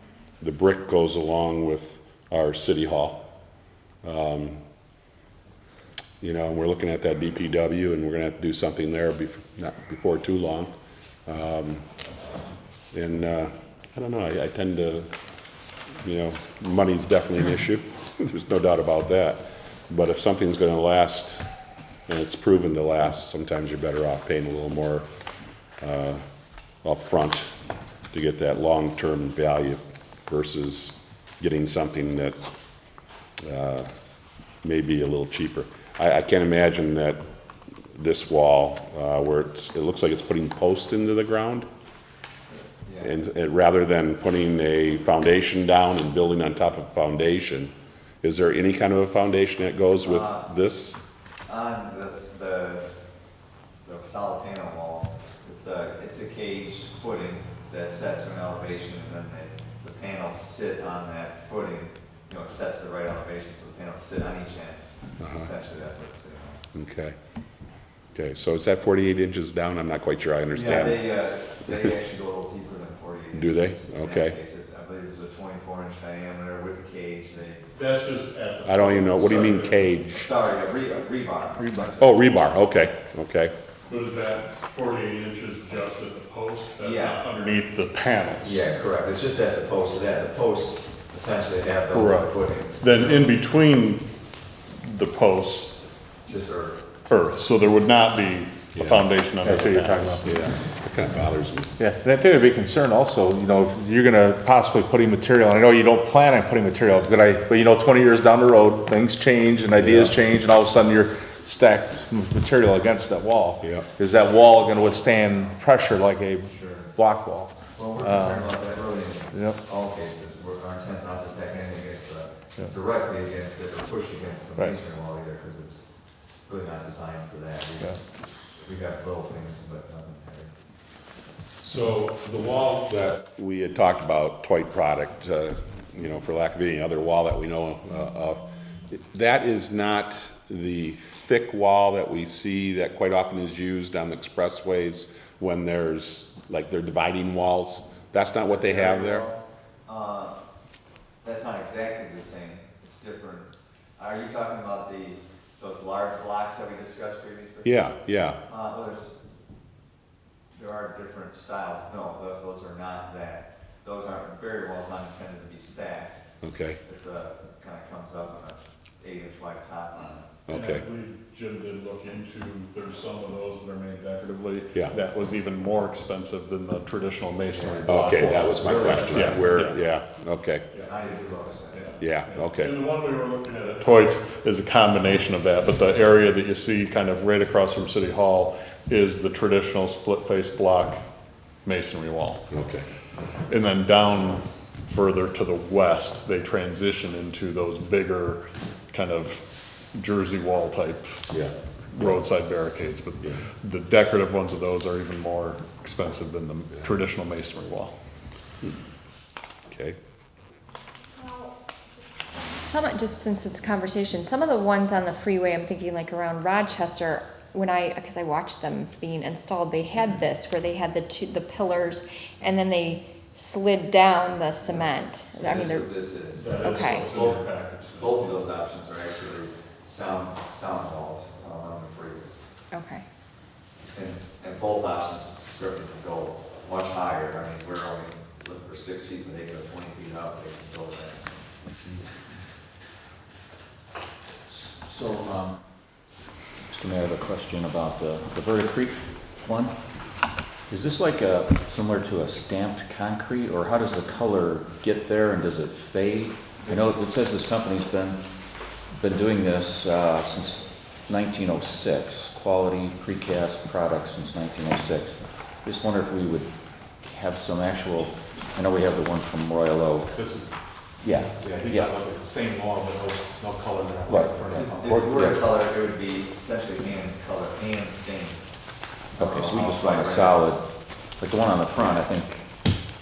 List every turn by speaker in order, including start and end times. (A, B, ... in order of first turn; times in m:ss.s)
0:00.4-0:03.2 A
0:04.0-0:04.6 A
0:06.2-0:10.7 A
0:11.3-0:11.9 A
0:12.9-0:15.1 A
0:16.0-0:21.5 A
0:22.1-0:25.1 A
0:25.8-0:26.2 A
0:26.8-0:27.5 A
0:28.1-0:32.4 A
0:33.4-0:33.9 A
0:34.6-0:37.2 A
0:38.0-0:41.7 A
0:42.5-0:43.1 B
0:43.0-0:51.0 A
0:50.0-0:50.5 B
0:51.5-0:52.9 B
0:53.8-1:06.6 B
1:05.2-1:05.5 A
1:06.7-1:07.2 A
1:08.2-1:11.1 A
1:10.5-1:17.6 B
1:13.4-1:14.4 A
1:17.8-1:19.8 C
1:18.7-1:20.3 A
1:20.1-1:22.2 B
1:21.6-1:21.9 D
1:22.0-1:23.5 A
1:23.9-1:28.7 C
1:26.8-1:27.2 B
1:28.4-1:33.3 B
1:31.9-1:34.1 C
1:34.8-1:35.8 C
1:36.3-1:37.4 B
1:37.1-1:40.2 C
1:38.7-1:39.1 A
1:39.4-1:40.3 D
1:40.2-1:41.7 A
1:41.8-1:58.5 D
1:49.8-1:50.2 A
1:53.6-1:53.9 A
1:54.6-1:55.6 B
1:56.5-1:56.9 B
1:57.8-2:05.9 B
1:59.3-1:59.6 D
2:06.5-2:08.0 B
2:08.6-2:10.5 B
2:11.6-2:29.3 A
2:28.6-2:30.4 B
2:31.2-2:37.7 B
2:37.6-2:38.4 A
2:38.5-2:39.2 B
2:40.5-2:46.2 B
2:46.4-2:46.8 A
2:46.8-2:50.3 B
2:50.5-2:50.8 A
2:50.5-2:59.8 C
2:57.5-2:59.7 B
2:57.9-3:00.6 A
3:00.7-3:01.9 B
3:01.7-3:11.0 C
3:02.0-3:02.8 A
3:11.6-3:12.4 C
3:12.5-3:12.9 A
3:13.5-3:21.2 C
3:21.9-3:27.9 C
3:29.7-3:30.0 A
3:32.5-3:45.9 E
3:45.4-3:52.3 B
3:46.3-3:48.4 C
3:46.6-3:47.1 E
3:52.7-3:53.0 E
3:53.9-4:01.5 B
4:04.5-4:05.6 F
4:06.7-4:09.8 F
4:10.7-4:18.2 F
4:18.9-4:30.2 F
4:31.0-4:31.9 F
4:31.5-4:35.0 G
4:34.1-4:34.3 F
4:34.5-4:38.4 B
4:35.0-4:35.4 F
4:39.2-4:40.5 B
4:39.2-4:40.7 F
4:41.2-4:42.5 F